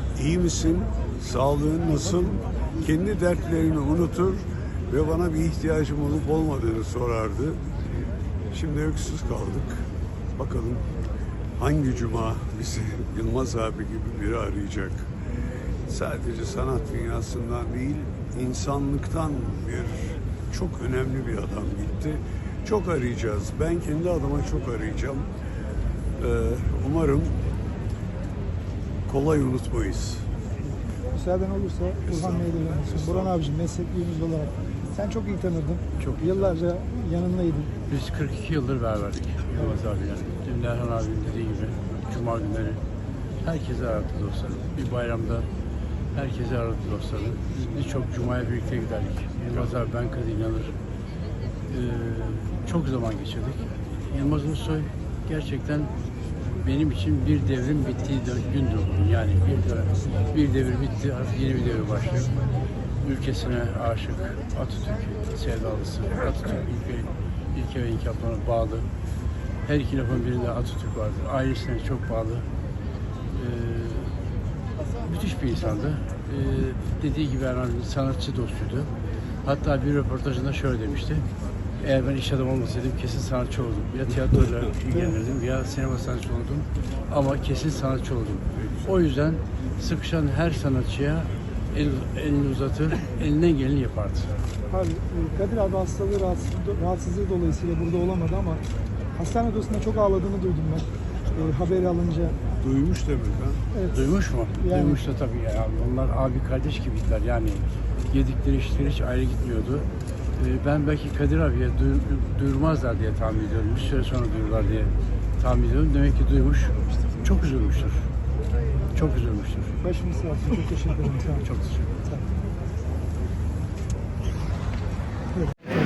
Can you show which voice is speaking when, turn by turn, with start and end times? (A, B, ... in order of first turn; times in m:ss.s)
0:00.2-0:07.7 A
0:08.5-0:11.0 A
0:11.6-0:15.2 A
0:15.9-0:25.3 A
0:26.2-0:27.4 A
0:29.1-0:30.3 A
0:31.2-0:37.7 B
0:32.1-0:33.4 A
0:36.0-0:36.3 C
0:37.9-0:42.8 C
0:43.4-0:45.5 C
0:46.1-0:50.8 C
0:51.7-0:55.9 C
0:56.6-1:02.5 C
1:03.0-1:08.9 C
1:09.6-1:12.5 C
1:13.3-1:14.2 C
1:15.0-1:18.9 C
1:19.4-1:21.3 C
1:21.8-1:34.3 C
1:34.7-1:38.6 B
1:39.2-1:42.4 B
1:42.6-1:43.6 A
1:43.9-1:58.1 C
1:44.6-1:44.9 B
1:58.9-1:59.8 C
1:59.8-2:01.4 B
2:01.4-2:01.9 C